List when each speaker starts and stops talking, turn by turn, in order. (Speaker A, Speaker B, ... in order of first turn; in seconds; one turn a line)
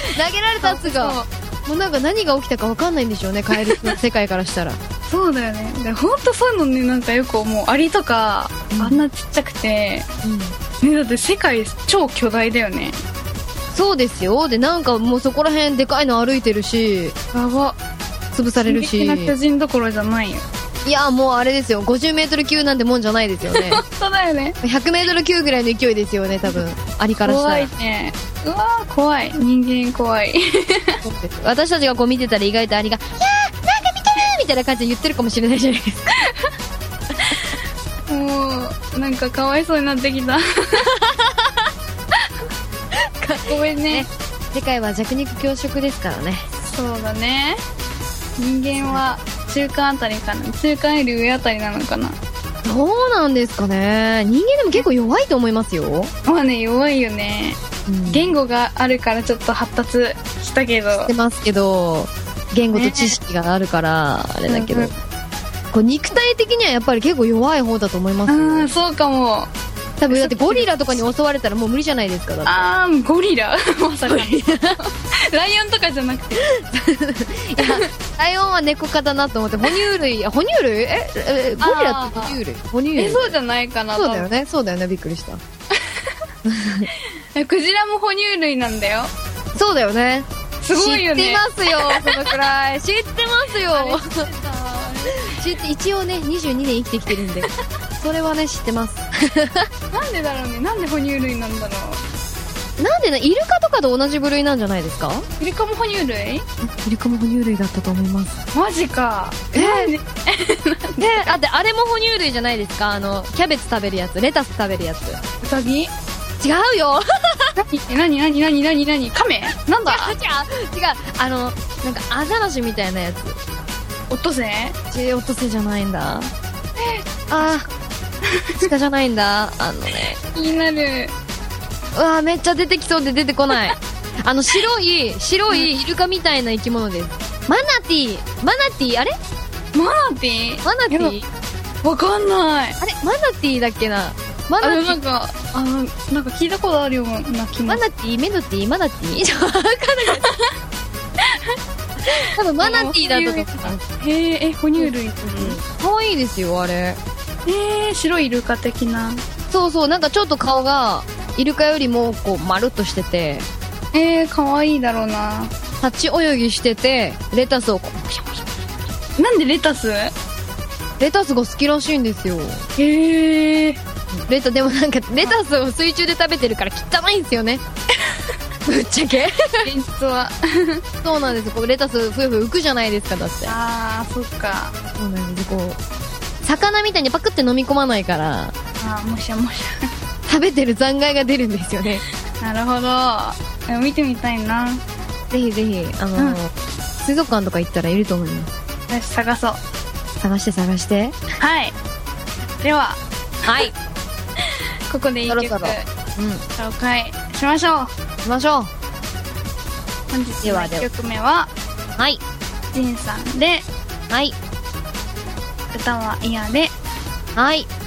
Speaker A: 0.1-4.8
Speaker B: 0.6-1.3
Speaker B: 3.6-4.0
Speaker B: 5.1-10.1
Speaker A: 8.7-9.0
Speaker A: 10.2-10.5
Speaker B: 10.8-13.0
Speaker A: 13.7-17.1
Speaker B: 17.3-17.8
Speaker A: 18.3-19.3
Speaker B: 18.6-20.4
Speaker A: 20.8-23.8
Speaker B: 23.5-24.6
Speaker A: 24.6-27.7
Speaker B: 27.2-31.0
Speaker A: 31.0-36.1
Speaker B: 38.1-40.9
Speaker A: 40.8-41.6
Speaker A: 43.0-46.5
Speaker B: 43.5-44.1
Speaker B: 46.6-47.6
Speaker B: 48.4-52.2
Speaker A: 52.6-56.1
Speaker B: 56.2-61.1
Speaker A: 57.9-58.3
Speaker A: 60.9-64.9
Speaker B: 62.7-63.2
Speaker B: 64.5-64.9
Speaker A: 65.7-68.7
Speaker B: 68.3-69.5
Speaker A: 70.0-72.7
Speaker B: 70.1-71.0
Speaker B: 72.5-76.5
Speaker A: 74.1-74.8
Speaker A: 76.4-83.3
Speaker B: 77.6-77.8
Speaker B: 81.6-82.4
Speaker B: 83.0-84.3
Speaker A: 83.9-85.4
Speaker A: 86.4-86.9
Speaker B: 87.3-89.1
Speaker A: 89.5-94.3
Speaker B: 90.6-92.3
Speaker B: 93.7-95.4
Speaker A: 95.1-99.7
Speaker B: 99.9-102.0
Speaker A: 102.8-105.3
Speaker B: 105.4-106.4
Speaker A: 106.6-108.4
Speaker B: 108.5-111.4
Speaker A: 109.5-109.9
Speaker A: 111.0-115.2
Speaker B: 115.4-115.9
Speaker A: 116.4-117.6
Speaker B: 117.6-120.1
Speaker A: 119.8-123.4
Speaker B: 124.1-124.8
Speaker A: 124.9-126.3
Speaker B: 126.8-127.7
Speaker A: 127.3-127.7
Speaker B: 128.2-128.7
Speaker A: 128.6-130.2
Speaker B: 130.3-131.1
Speaker A: 131.9-139.1
Speaker B: 139.7-141.2
Speaker A: 140.6-141.2
Speaker B: 141.8-142.8
Speaker A: 142.8-145.0
Speaker B: 144.6-147.8
Speaker A: 147.7-150.3
Speaker B: 152.1-155.6
Speaker A: 152.2-153.8
Speaker A: 154.8-157.0
Speaker B: 157.4-159.2
Speaker A: 159.5-163.5
Speaker B: 163.9-165.5
Speaker A: 165.8-168.3
Speaker B: 169.2-170.1
Speaker A: 171.0-172.6
Speaker B: 172.8-173.8
Speaker A: 174.1-177.6
Speaker A: 178.7-179.7
Speaker B: 179.6-180.8
Speaker A: 181.0-183.5
Speaker B: 183.4-184.7
Speaker A: 185.0-185.8
Speaker A: 186.4-188.5
Speaker B: 188.8-189.9
Speaker A: 190.3-192.0
Speaker B: 192.4-194.8
Speaker A: 195.3-198.5
Speaker B: 198.9-199.6
Speaker A: 200.2-201.2
Speaker B: 201.4-201.7
Speaker B: 202.6-203.7
Speaker A: 203.4-203.7
Speaker B: 204.9-205.8
Speaker A: 205.3-206.4
Speaker B: 206.6-207.9
Speaker A: 208.2-208.7
Speaker B: 210.1-211.5
Speaker A: 210.4-210.9
Speaker B: 212.7-213.7
Speaker A: 214.1-214.3
Speaker B: 215.7-216.7
Speaker A: 217.3-217.7